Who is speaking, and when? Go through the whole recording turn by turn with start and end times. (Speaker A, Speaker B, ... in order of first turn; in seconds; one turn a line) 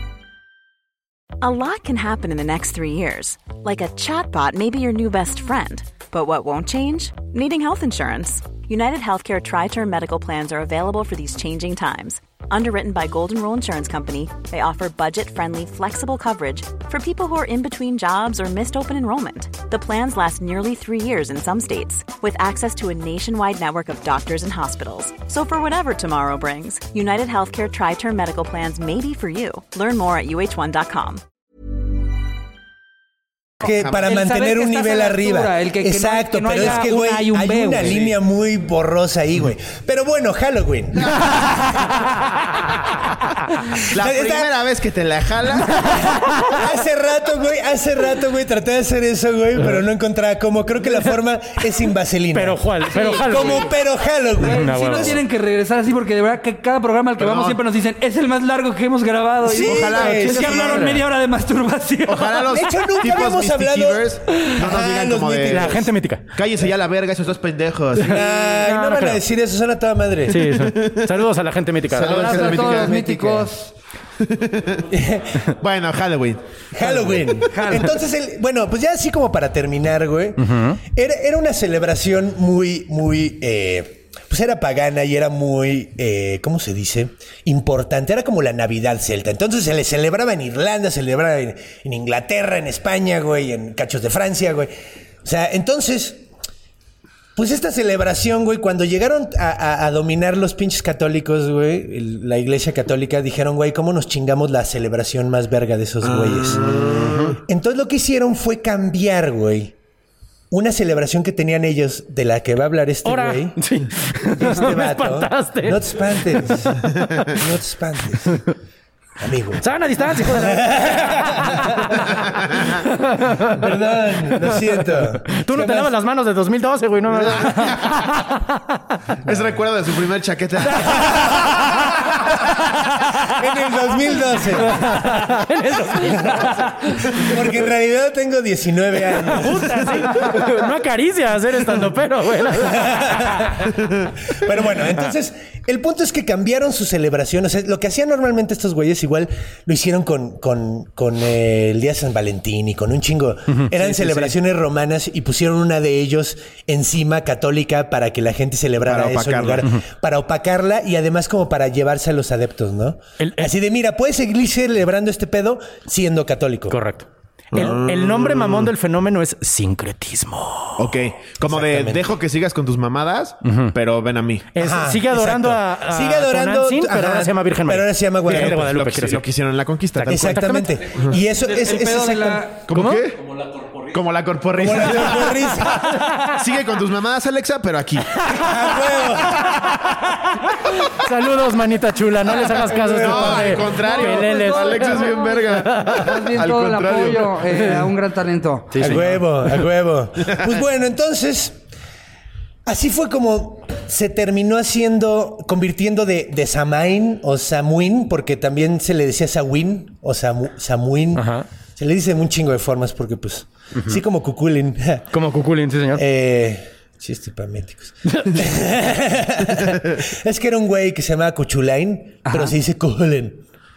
Speaker A: 1.4-31.2
Speaker B: 33.6-41.6
Speaker C: 33.6-34.0
Speaker D: 33.9-38.0
Speaker C: 37.8-38.1
Speaker C: 41.0-41.9
Speaker C: 43.8-46.0
Speaker B: 43.9-44.5
Speaker B: 45.9-52.6
Speaker E: 52.3-53.7
Speaker D: 52.9-53.7
Speaker B: 53.2-55.1
Speaker D: 54.4-62.5
Speaker E: 54.5-55.2
Speaker C: 57.2-57.6
Speaker B: 59.4-60.9
Speaker C: 59.5-60.9
Speaker E: 60.3-61.0
Speaker C: 62.1-68.2
Speaker B: 62.5-65.9
Speaker E: 65.5-66.2
Speaker B: 68.0-70.8
Speaker E: 68.1-69.2
Speaker E: 70.3-72.7
Speaker C: 70.7-71.1
Speaker C: 71.9-73.0
Speaker D: 72.0-73.7
Speaker B: 72.1-73.5
Speaker C: 74.2-74.9
Speaker B: 74.9-75.4
Speaker C: 75.5-76.4
Speaker B: 76.7-94.7
Speaker D: 76.8-77.9
Speaker E: 80.4-80.8
Speaker B: 95.2-96.2
Speaker B: 97.4-106.7
Speaker C: 106.0-107.4
Speaker E: 106.7-107.3
Speaker B: 107.4-109.7
Speaker B: 110.5-113.6
Speaker E: 113.0-117.3
Speaker B: 114.4-118.4
Speaker B: 119.2-121.9
Speaker E: 119.6-123.7
Speaker B: 123.5-125.9
Speaker E: 124.3-129.0
Speaker C: 127.2-128.0
Speaker C: 129.2-131.3
Speaker E: 130.7-133.3
Speaker B: 133.2-134.9
Speaker E: 134.4-136.7
Speaker B: 136.0-136.5
Speaker B: 137.1-140.5
Speaker E: 139.2-143.7
Speaker B: 142.6-143.6
Speaker B: 144.3-166.8
Speaker C: 158.8-159.7
Speaker E: 163.2-163.5
Speaker E: 166.7-170.9
Speaker C: 167.5-168.7
Speaker C: 170.8-174.5
Speaker B: 171.4-172.1
Speaker E: 173.5-173.7
Speaker E: 174.5-179.2
Speaker B: 174.6-178.7
Speaker C: 178.3-180.4
Speaker E: 180.0-180.8
Speaker B: 180.1-182.5
Speaker D: 181.4-182.6
Speaker C: 182.7-185.6
Speaker E: 182.7-183.0
Speaker B: 184.6-185.9
Speaker E: 185.7-186.4
Speaker C: 186.3-188.1
Speaker E: 188.3-195.1
Speaker B: 188.3-189.8
Speaker B: 192.7-193.5
Speaker C: 192.8-197.7
Speaker D: 193.7-198.8
Speaker E: 195.7-196.0
Speaker E: 198.7-199.6
Speaker B: 198.8-201.6
Speaker B: 202.7-215.1
Speaker E: 211.2-211.5
Speaker E: 215.1-216.0
Speaker B: 216.0-223.4
Speaker E: 218.1-218.5
Speaker D: 222.3-222.6